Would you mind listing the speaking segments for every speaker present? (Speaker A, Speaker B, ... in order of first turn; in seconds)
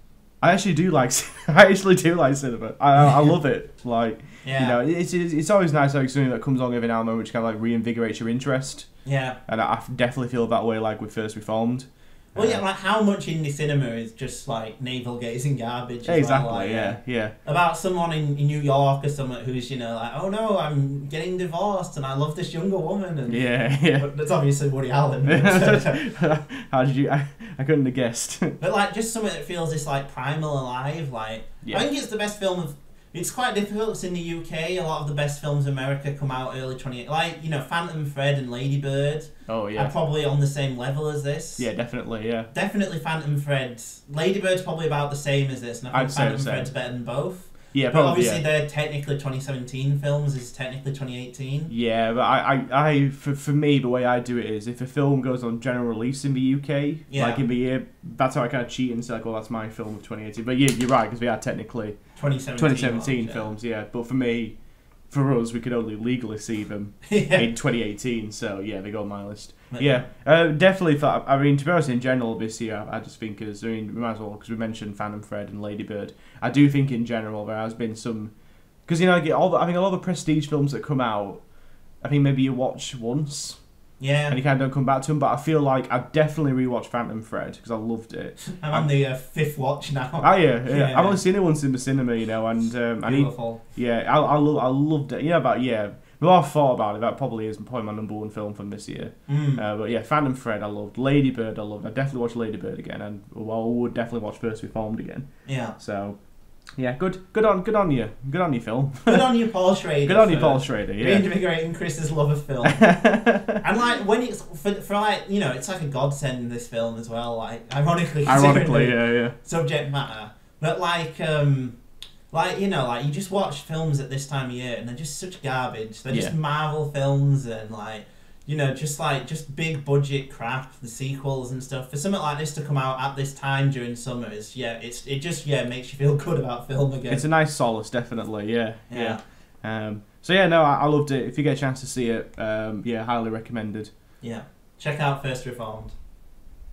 Speaker A: 0.4-12.6, 16.1-17.4, 23.3-24.1, 25.2-28.6, 31.6-31.9, 39.5-39.9, 41.6-42.5, 45.9-48.5, 51.7-89.0, 90.2-111.3, 112.8-113.5, 118.2-119.3, 126.1-126.3, 137.1-143.9
Speaker B: 3.0-3.3, 4.4-4.8, 9.0-9.4, 12.3-26.0, 28.6-42.0, 42.5-51.7, 57.1-57.4, 62.2-63.5, 67.0-67.5, 69.7-70.1, 84.0-84.4, 88.5-91.2, 93.0-93.6, 99.3-99.6, 105.5-105.8, 109.1-121.8, 122.3-137.2, 138.9-139.2, 144.2-146.0